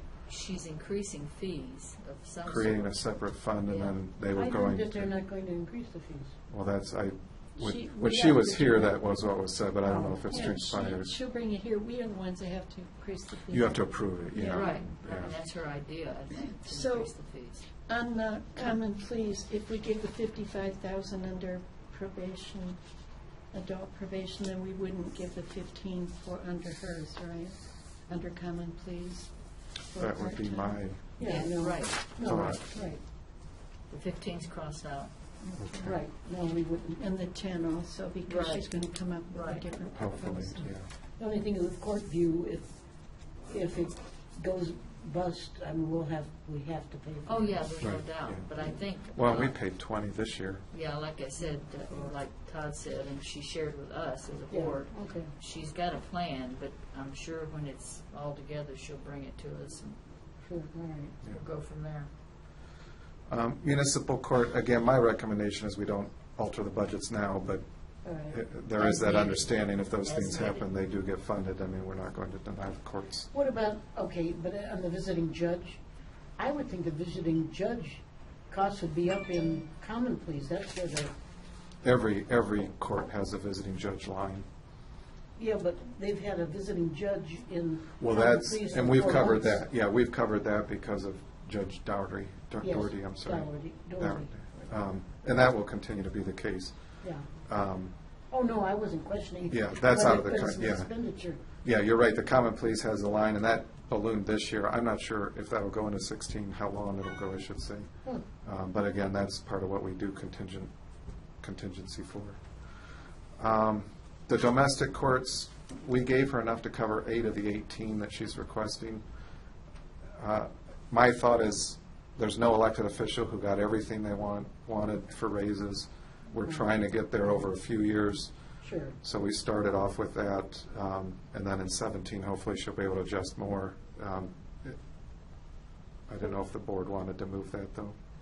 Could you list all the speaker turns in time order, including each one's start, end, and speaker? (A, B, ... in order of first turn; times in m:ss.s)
0:00.3-0:03.0 A
0:02.4-0:05.1 B
0:03.6-0:04.0 A
0:04.3-0:06.3 C
0:06.5-0:11.1 B
0:07.6-0:09.2 D
0:09.8-0:10.4 C
0:10.3-0:14.9 D
0:13.5-0:15.3 B
0:14.5-0:17.6 A
0:16.5-0:17.1 D
0:17.8-0:22.8 D
0:23.5-0:29.3 D
0:29.9-0:31.5 D
0:30.0-0:31.2 B
0:31.2-0:33.0 C
0:31.2-0:32.1 A
0:32.2-0:32.6 B
0:33.9-0:35.1 A
0:35.4-0:35.8 D
0:35.6-0:36.0 B
0:35.8-0:37.0 C
0:37.0-0:40.7 D
0:38.2-0:38.8 A
0:39.3-0:39.6 A
0:39.9-0:40.9 B
0:41.2-0:42.7 C
0:43.5-0:47.6 C
0:47.2-0:49.5 A
0:47.8-0:48.5 B
0:49.1-0:50.6 B
0:50.7-1:00.0 A
0:54.5-0:55.3 C
1:00.4-1:01.2 C
1:01.2-1:02.1 A
1:03.3-1:07.6 B
1:08.0-1:09.0 C
1:08.2-1:13.3 B
1:08.8-1:09.5 A
1:10.0-1:10.6 A
1:13.3-1:15.8 C
1:16.4-1:21.1 C
1:21.8-1:24.4 B
1:25.4-1:29.6 C
1:28.0-1:36.7 B
1:32.6-1:34.7 C
1:37.0-1:37.3 C
1:37.5-1:37.9 B
1:38.3-1:41.4 C
1:39.5-1:40.9 B
1:41.6-1:47.9 B
1:48.4-1:50.7 B
1:51.4-1:52.4 B
1:53.4-1:59.0 B
2:00.2-2:08.3 B
2:08.6-2:09.0 C
2:09.0-2:14.8 B
2:16.1-2:17.9 B